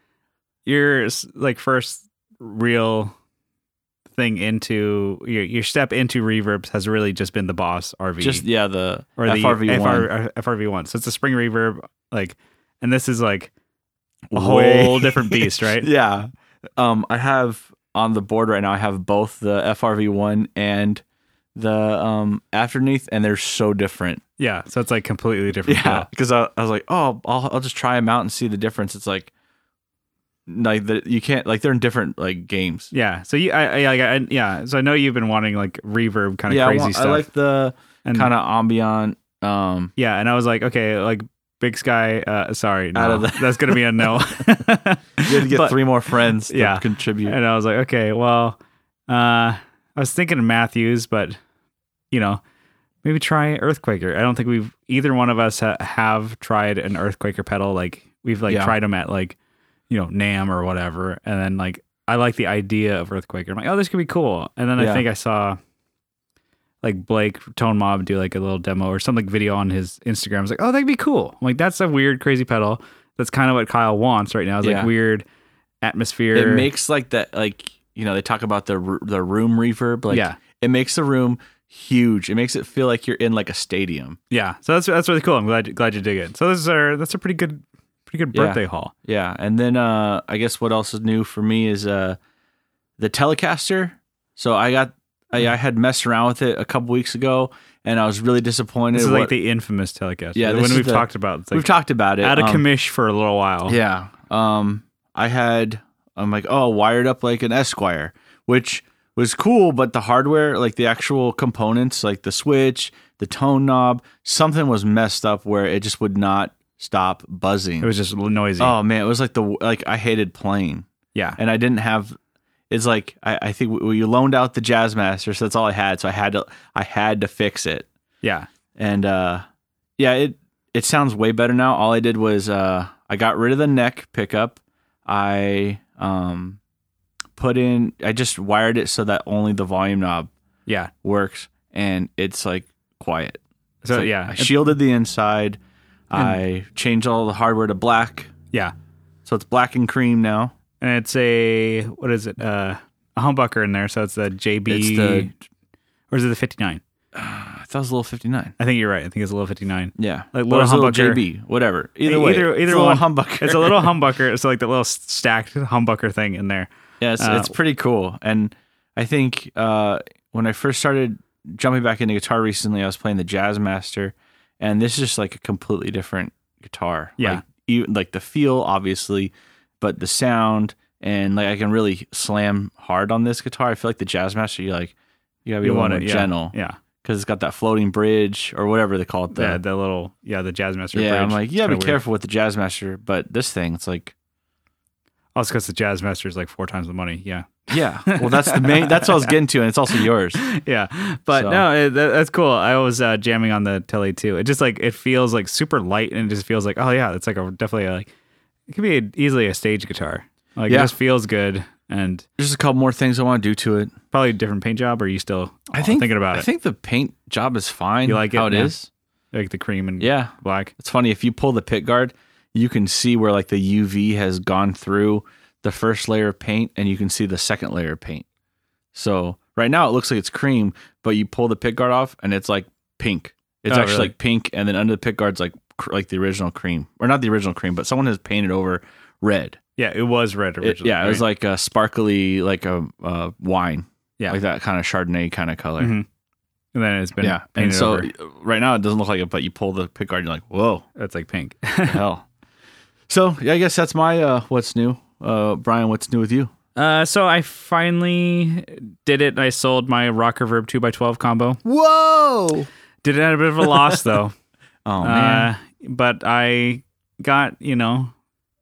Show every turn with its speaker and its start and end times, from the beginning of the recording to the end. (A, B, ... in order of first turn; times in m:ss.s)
0:00.6-0:03.1 A
0:04.1-0:08.4 A
0:08.2-0:10.1 B
0:09.2-0:13.5 A
0:14.3-0:21.0 B
0:14.3-0:15.9 A
0:21.5-0:24.2 B
0:24.4-0:26.1 A
0:25.6-0:29.3 B
0:30.5-0:32.9 B
0:32.9-0:37.2 A
0:36.5-0:39.9 B
0:38.0-0:38.3 A
0:40.0-0:51.4 A
0:42.9-0:44.2 B
0:45.2-0:47.3 B
0:52.1-0:52.4 A
0:53.0-0:59.4 A
0:58.5-0:58.7 B
0:59.9-1:05.6 A
1:04.8-1:05.0 B
1:06.8-1:15.2 A
1:14.6-1:14.9 B
1:15.8-1:16.7 A
1:16.3-1:24.2 B
1:20.1-1:20.4 A
1:24.3-1:28.9 A
1:28.3-1:32.2 B
1:33.0-1:39.3 B
1:38.9-1:41.7 A
1:40.3-1:42.6 B
1:42.2-1:43.8 A
1:43.7-1:57.9 B
1:57.8-1:58.7 A
1:58.6-2:02.2 B
2:02.7-2:07.9 B
2:08.2-2:08.5 A
2:08.8-2:09.4 B
2:10.0-2:16.6 B
2:17.4-2:20.3 B
2:21.0-2:25.6 B
2:23.8-2:24.6 A
2:26.1-2:28.3 B
2:29.2-2:30.5 B
2:30.8-2:35.3 A
2:34.7-2:35.3 B
2:36.1-2:36.8 A
2:37.1-2:38.5 B
2:38.6-2:41.2 A
2:40.0-2:43.9 B
2:42.0-2:47.5 A
2:47.0-3:09.6 B
3:05.6-3:06.8 A
3:09.3-3:12.0 A
3:10.9-3:14.1 B
3:15.3-3:19.3 A
3:17.7-3:20.4 B
3:20.0-3:28.1 A
3:21.3-3:21.6 B
3:28.7-3:32.3 A
3:32.4-3:33.9 B
3:34.1-3:36.5 A
3:35.7-3:38.9 B
3:38.0-3:38.7 A
3:39.3-3:40.7 A
3:40.0-3:48.2 B
3:48.9-3:59.6 B
3:53.7-3:54.1 A
3:59.8-4:01.2 A
4:00.6-4:05.9 B
4:05.8-4:06.0 A
4:06.7-4:08.1 A
4:07.2-4:10.8 B
4:11.0-4:12.0 A
4:11.9-4:12.2 B
4:13.1-4:16.5 B
4:16.7-4:21.6 A
4:21.6-4:22.7 B
4:23.0-4:24.3 A
4:23.6-4:24.2 B
4:24.8-4:25.5 B
4:25.0-4:28.1 A